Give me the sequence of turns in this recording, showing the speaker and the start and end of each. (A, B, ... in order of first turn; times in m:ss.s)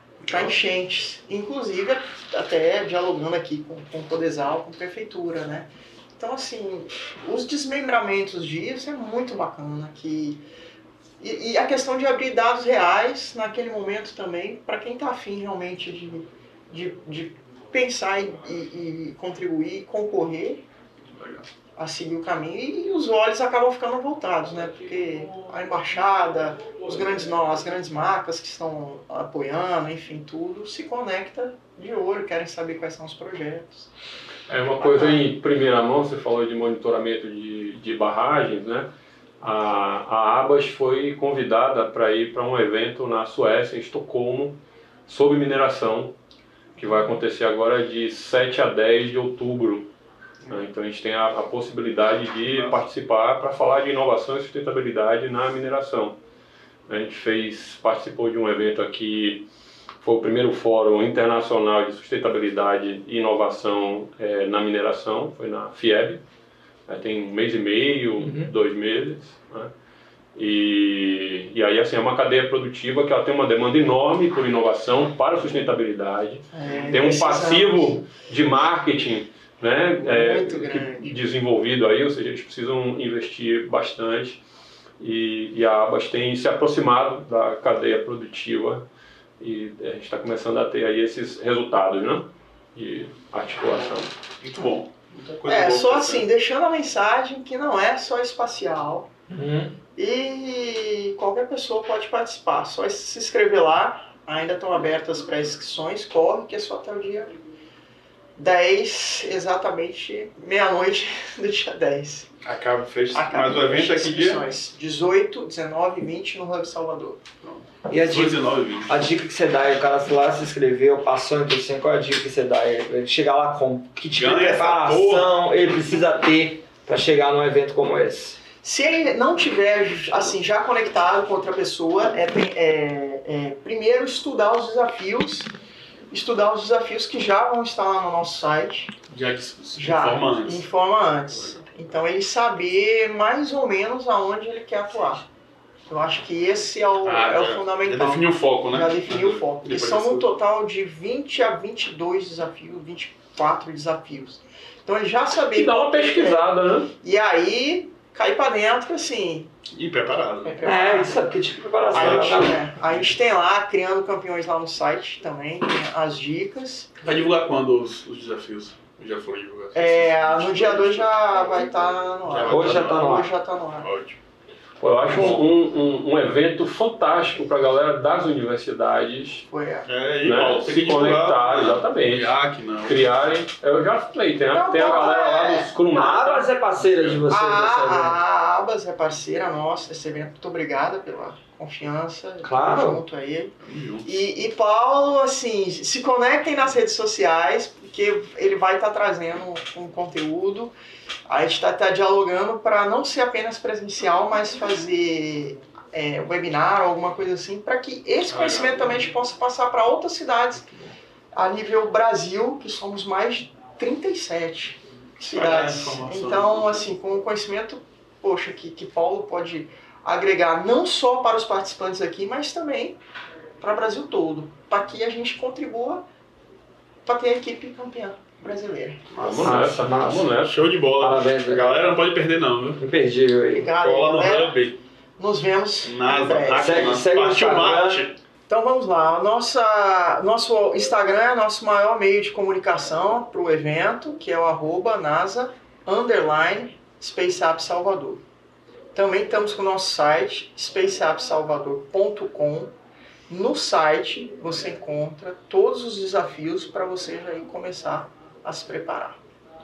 0:00.2-0:00.6 A
0:00.3-0:10.4 B
0:11.2-0:20.6 B
0:21.1-0:21.5 A
0:21.8-0:33.9 B
0:34.5-0:46.2 C
0:34.8-0:35.2 B
0:46.8-0:49.9 C
0:50.4-0:56.2 C
0:52.5-0:52.8 A
0:56.9-0:59.4 C
1:00.0-1:06.2 C
1:06.9-1:09.7 C
1:08.2-1:08.5 D
1:10.3-1:24.4 C
1:16.5-1:18.0 B
1:20.0-1:21.1 B
1:25.0-1:28.8 C
1:29.4-1:34.1 C
1:34.4-1:36.3 A
1:35.4-1:39.1 B
1:39.3-1:39.7 D
1:40.0-1:47.3 B
1:48.4-1:52.3 B
1:52.4-1:54.5 A
1:53.1-1:57.2 B
1:57.4-1:59.1 A
1:57.9-2:08.4 D
2:04.1-2:05.3 A
2:08.6-2:15.5 B
2:16.1-2:18.9 B
2:19.1-2:20.7 A
2:19.7-2:25.3 B
2:25.9-2:39.5 B
2:27.0-2:30.3 A
2:35.5-2:36.9 C
2:39.7-2:40.6 A
2:40.4-2:41.3 B
2:40.6-2:42.6 D
2:41.9-2:47.0 B
2:41.9-2:43.1 A
2:47.0-2:51.4 A
2:49.7-2:53.9 B
2:52.2-2:53.1 A
2:52.5-2:53.3 D
2:53.8-2:54.2 A
2:54.8-2:59.5 C
2:55.1-2:55.4 A
2:59.5-2:59.9 B
2:59.9-3:03.1 A
3:00.2-3:06.5 C
3:04.5-3:05.7 B
3:04.6-3:05.3 D
3:05.9-3:08.2 D
3:07.3-3:20.7 B
3:12.4-3:13.0 D
3:13.6-3:14.1 A
3:21.2-3:30.7 B
3:28.3-3:29.0 A
3:31.3-3:43.0 B
3:35.3-3:36.9 A
3:43.6-3:46.0 B
3:47.0-3:49.1 B
3:49.1-3:52.8 A
3:49.2-3:50.6 C
3:49.4-3:50.3 D
3:51.0-3:51.9 D
3:52.8-3:53.7 D
3:53.5-3:54.6 B
3:53.8-3:54.8 A
3:55.2-3:57.0 B
3:55.8-3:58.1 A
3:56.6-3:58.0 D
3:58.5-4:08.2 B
4:08.9-4:12.7 B
4:13.3-4:19.2 B